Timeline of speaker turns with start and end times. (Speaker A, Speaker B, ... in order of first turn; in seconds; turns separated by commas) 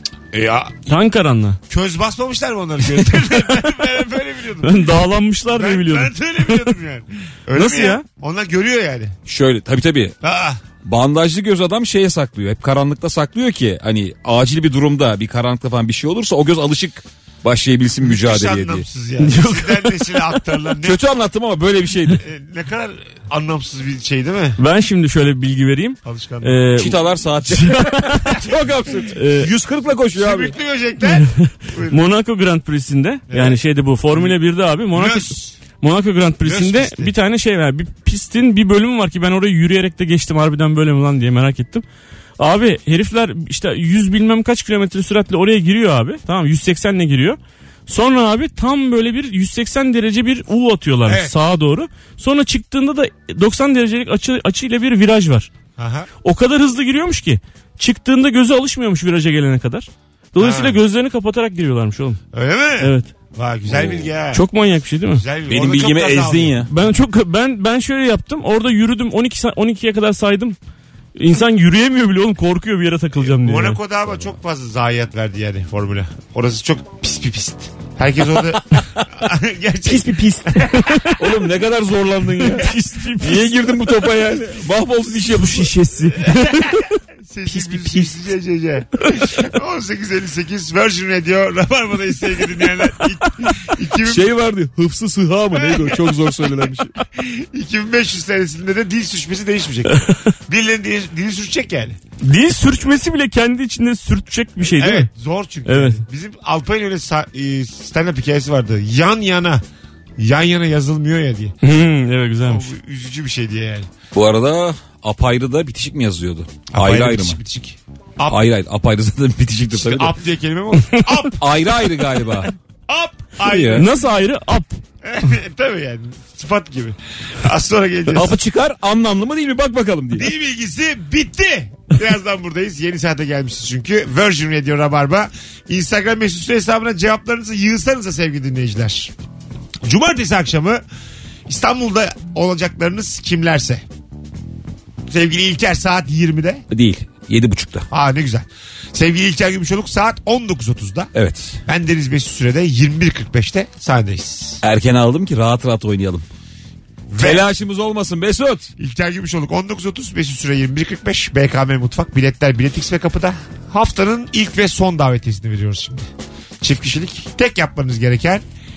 Speaker A: 0.3-0.9, Speaker B: 0.9-1.6, Speaker A: 1.7-4.8, Speaker B: 4.6-6.8, Speaker A: 5.5-9.2, Speaker B: 7.5-8.0, Speaker C: 9.2-10.2, Speaker A: 10.2-10.6, Speaker C: 10.8-18.9, Speaker A: 18.1-21.0, Speaker B: 19.2-20.4, Speaker C: 20.8-22.2, Speaker A: 22.2-24.6, Speaker B: 24.6-28.4, Speaker A: 26.0-26.7, Speaker C: 26.8-30.6, Speaker B: 29.1-29.5, Speaker A: 30.1-32.0, Speaker B: 31.1-41.8, Speaker A: 33.3-33.6, Speaker A: 34.9-35.6, Speaker A: 36.4-37.1, Speaker B: 42.4-55.5, Speaker A: 51.0-51.3, Speaker A: 55.8-56.1, Speaker B: 56.2-62.2, Speaker A: 60.4-60.8, Speaker A: 62.3-64.5, Speaker B: 62.8-63.1, Speaker C: 63.7-64.1, Speaker B: 64.3-65.2, Speaker A: 65.1-66.7, Speaker C: 65.5-66.7, Speaker B: 66.7-70.5, Speaker B: 71.2-73.8, Speaker A: 73.2-81.2, Speaker B: 79.9-81.2, Speaker C: 81.2-86.3, Speaker B: 82.3-83.5, Speaker B: 85.5-87.0, Speaker A: 87.2-94.2, Speaker C: 87.5-88.1, Speaker B: 87.5-88.1, Speaker C: 94.0-96.9, Speaker A: 95.5-96.5, Speaker A: 97.1-102.0, Speaker B: 102.2-105.1, Speaker A: 104.7-109.6, Speaker B: 105.7-106.0, Speaker A: 110.2-111.5, Speaker B: 111.6-112.7, Speaker A: 112.5-113.9, Speaker C: 114.1-117.4, Speaker A: 116.7-118.4, Speaker C: 118.3-120.2, Speaker A: 119.7-121.5, Speaker C: 121.4-122.5, Speaker A: 122.3-123.9, Speaker C: 123.4-123.9, Speaker B: 123.6-124.8, Speaker A: 125.0-128.3, Speaker C: 128.1-130.3, Speaker A: 130.2-139.1, Speaker A: 139.8-140.8, Speaker A: 141.5-143.8, Speaker A: 145.1-146.6, Speaker C: 146.7-147.9, Speaker A: 147.9-151.1, Speaker C: 151.1-151.6, Speaker A: 151.7-154.6, Speaker C: 154.6-156.2, Speaker A: 157.1-157.4, Speaker C: 157.1-158.7, Speaker A: 158.8-166.1, Speaker A: 166.6-168.4